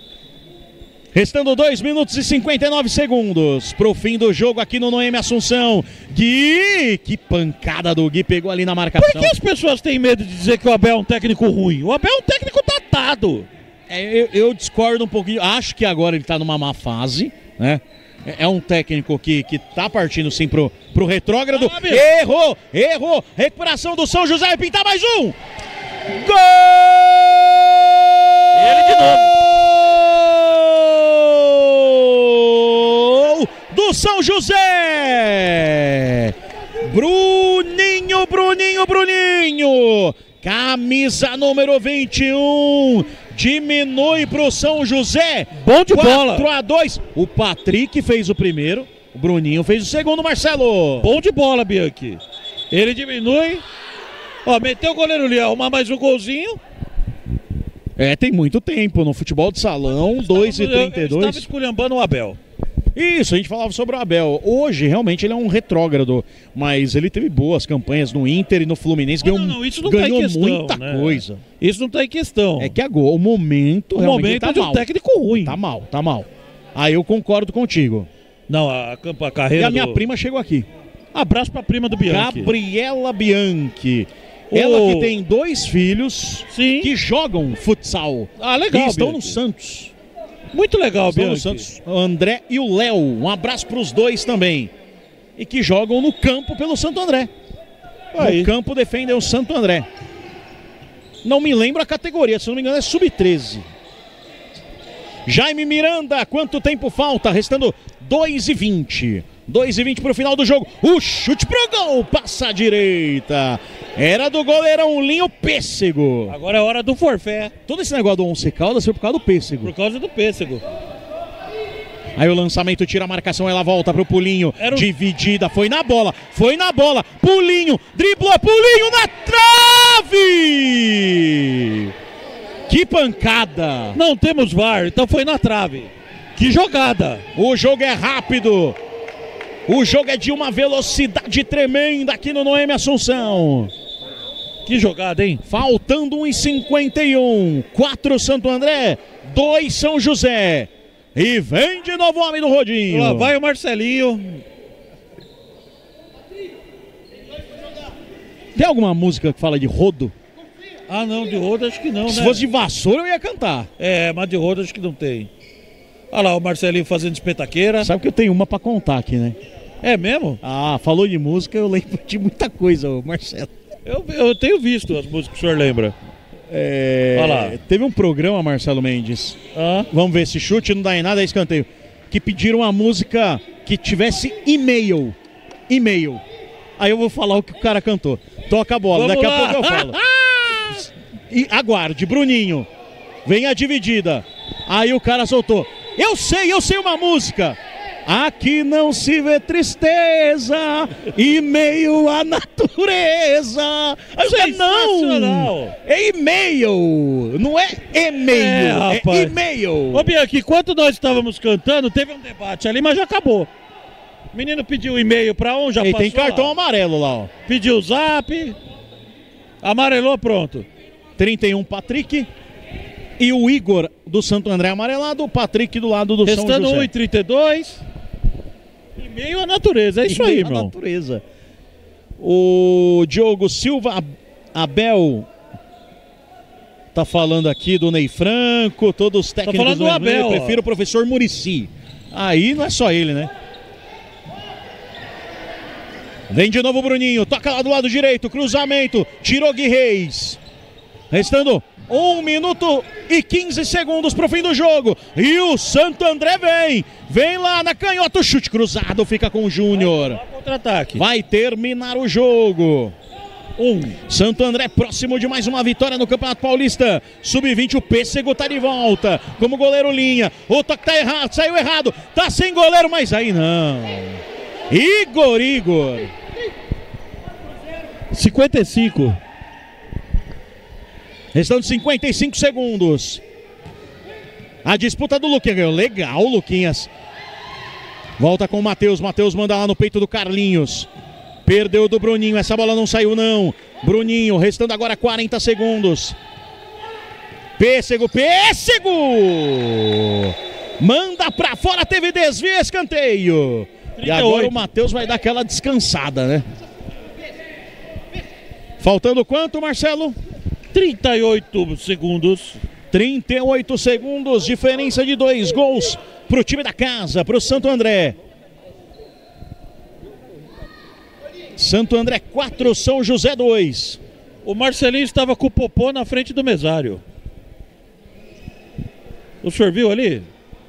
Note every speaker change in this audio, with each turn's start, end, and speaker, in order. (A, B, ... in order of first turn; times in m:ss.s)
0:01.1-0:09.4 A
0:09.0-0:13.5 B
0:13.9-0:25.4 A
0:21.5-0:22.0 B
0:26.1-0:51.1 A
0:28.5-0:29.3 B
0:45.6-0:46.5 B
0:51.0-0:53.6 B
0:54.4-0:56.6 B
0:58.0-1:01.5 A
1:00.2-1:02.4 B
1:02.9-1:11.4 A
1:09.2-1:12.7 B
1:12.6-1:18.1 A
1:13.9-1:15.6 B
1:18.5-1:20.1 B
1:19.6-1:20.7 A
1:21.1-1:22.5 B
1:22.1-1:29.9 A
1:24.5-1:25.2 B
1:26.5-1:26.9 B
1:28.4-1:29.4 B
1:30.5-1:31.7 B
1:31.0-1:34.7 A
1:35.4-1:37.3 A
1:38.1-1:38.5 B
1:38.2-1:39.8 A
1:41.2-1:43.7 A
1:45.2-1:56.4 A
1:56.3-1:57.5 B
1:57.7-1:59.7 A
1:59.6-2:00.6 B
2:02.2-2:11.9 A
2:04.6-2:04.9 B
2:12.7-2:14.0 A
2:13.9-2:17.2 B
2:17.3-2:18.8 A
2:19.7-2:23.7 A
2:24.6-2:25.4 B
2:25.4-2:33.3 A
2:32.9-2:34.4 B
2:38.5-2:40.1 A
2:40.9-2:42.5 B
2:42.0-2:43.7 A
2:43.8-2:45.3 B
2:46.1-2:47.9 B
2:47.8-2:49.4 A
2:49.8-2:50.4 B
2:50.4-2:53.5 A
2:53.8-2:55.9 B
2:56.5-2:59.4 A
2:57.1-2:57.6 B
2:59.5-2:59.9 B
2:59.9-3:05.2 A
3:05.7-3:06.2 A
3:06.8-3:12.7 A
3:08.9-3:10.3 B
3:13.2-3:30.1 A
3:24.2-3:25.7 B
3:28.3-3:29.4 B
3:29.9-3:33.5 B
3:34.3-3:36.5 B
3:35.8-3:37.3 A
3:37.4-3:38.6 B
3:39.6-3:40.7 B
3:41.2-3:42.3 A
3:43.2-3:46.9 A
3:46.2-3:47.8 B
3:49.0-3:50.7 B
3:50.0-3:51.2 A
3:52.2-3:55.3 A
3:56.9-4:03.3 A
3:59.4-4:00.6 B
4:06.3-4:10.4 A
4:11.1-4:20.2 A
4:19.7-4:21.0 B
4:20.9-4:22.9 A
4:23.6-4:24.0 B
4:24.1-4:36.1 A
4:38.1-4:39.2 B
4:41.3-4:43.2 A
4:44.6-4:46.9 A
4:48.2-4:50.9 A
4:51.4-4:56.2 A
4:57.6-5:06.4 A
5:04.0-5:04.6 B
5:08.8-5:10.2 A
5:10.7-5:12.6 B
5:12.9-5:18.2 A
5:21.6-5:24.0 A
5:24.4-5:27.0 B
5:29.4-5:30.3 B